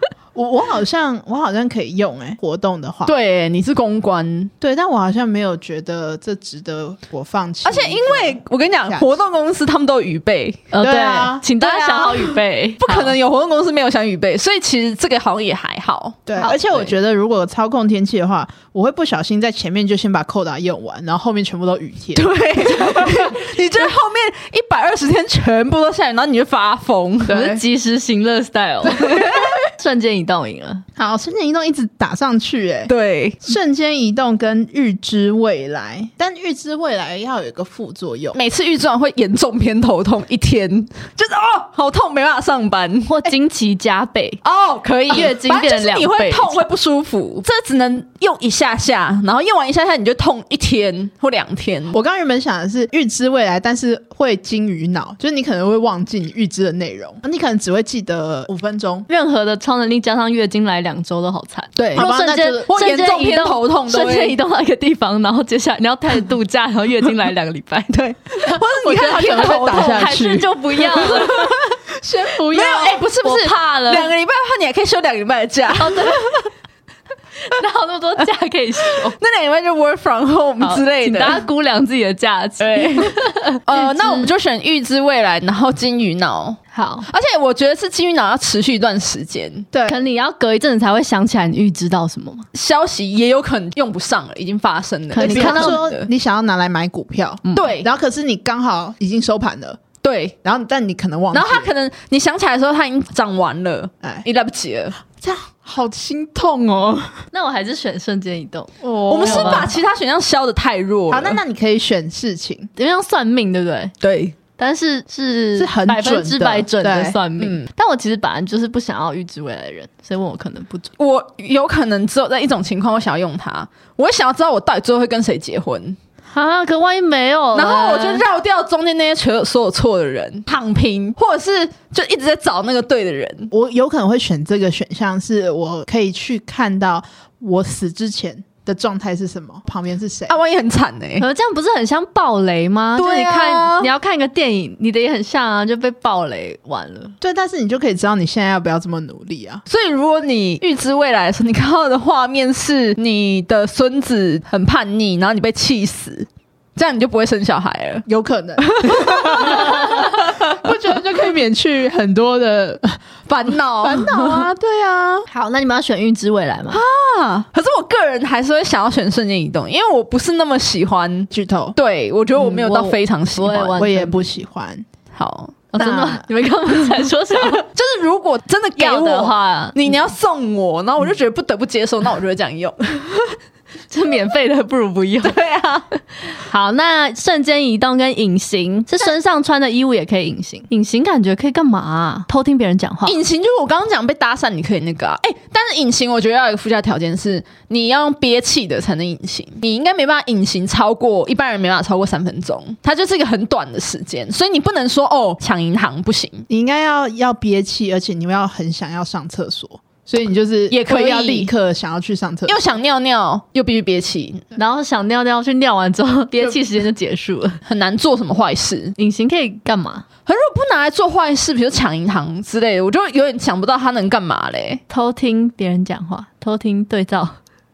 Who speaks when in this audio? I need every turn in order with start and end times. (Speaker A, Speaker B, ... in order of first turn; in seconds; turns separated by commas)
Speaker A: 0.3-3.1, Speaker B: 3.0-4.5, Speaker A: 4.6-9.1, Speaker B: 7.6-10.7, Speaker C: 10.7-13.1, Speaker A: 10.8-11.4, Speaker B: 11.6-16.9, Speaker A: 16.2-23.3, Speaker B: 22.1-27.6, Speaker C: 27.2-30.8, Speaker B: 29.0-29.5, Speaker A: 31.0-32.9, Speaker B: 32.9-33.4, Speaker A: 33.4-38.4, Speaker B: 38.3-43.1, Speaker C: 43.1-44.4, Speaker B: 44.4-52.0, Speaker C: 45.1-46.6, Speaker A: 51.9-59.1, Speaker C: 59.1-67.9, Speaker B: 61.8-62.1, Speaker A: 61.9-62.6, Speaker B: 62.6-64.4, Speaker B: 67.9-71.7, Speaker C: 68.5-71.5, Speaker A: 68.5-70.5, Speaker A: 71.3-73.0, Speaker B: 72.5-76.5, Speaker C: 73.2-74.1, Speaker C: 75.7-76.5, Speaker C: 77.4-79.2, Speaker B: 79.1-81.4, Speaker C: 80.6-84.3, Speaker B: 82.6-89.7, Speaker C: 86.7-87.1, Speaker A: 89.7-90.0, Speaker C: 89.8-92.5, Speaker B: 92.5-96.1, Speaker C: 95.1-95.8, Speaker A: 95.2-99.8, Speaker B: 97.5-97.9, Speaker B: 100.0-100.3, Speaker A: 100.4-101.7, Speaker B: 101.3-105.0, Speaker A: 105.1-107.2, Speaker C: 107.3-109.7, Speaker A: 108.8-109.8, Speaker B: 109.1-111.4, Speaker A: 111.1-112.7, Speaker C: 112.8-113.9, Speaker B: 114.0-114.3, Speaker C: 114.6-120.9, Speaker A: 115.5-117.2, Speaker B: 117.4-117.7, Speaker B: 121.0-126.0, Speaker C: 126.3-128.2, Speaker B: 127.5-133.5, Speaker A: 133.5-140.4, Speaker B: 140.3-141.2, Speaker C: 141.2-147.1, Speaker B: 143.0-143.9, Speaker A: 147.2-149.6, Speaker B: 149.7-158.0, Speaker A: 158.1-163.0, Speaker B: 158.6-160.6, Speaker B: 163.3-164.5, Speaker A: 163.8-165.2, Speaker C: 165.3-166.8, Speaker B: 166.7-173.8, Speaker A: 171.3-171.8, Speaker C: 172.4-174.2, Speaker A: 173.8-174.8, Speaker B: 175.1-175.6, Speaker C: 175.7-177.7, Speaker A: 175.8-176.2, Speaker B: 177.4-183.3, Speaker C: 178.8-179.8, Speaker C: 183.9-185.4, Speaker B: 185.2-185.9, Speaker C: 186.3-193.2, Speaker B: 193.1-206.4, Speaker A: 206.5-212.6, Speaker B: 210.7-211.5, Speaker B: 212.5-214.4, Speaker C: 214.6-217.6, Speaker B: 217.6-218.9, Speaker C: 219.0-220.1, Speaker B: 220.2-224.8, Speaker C: 224.9-227.4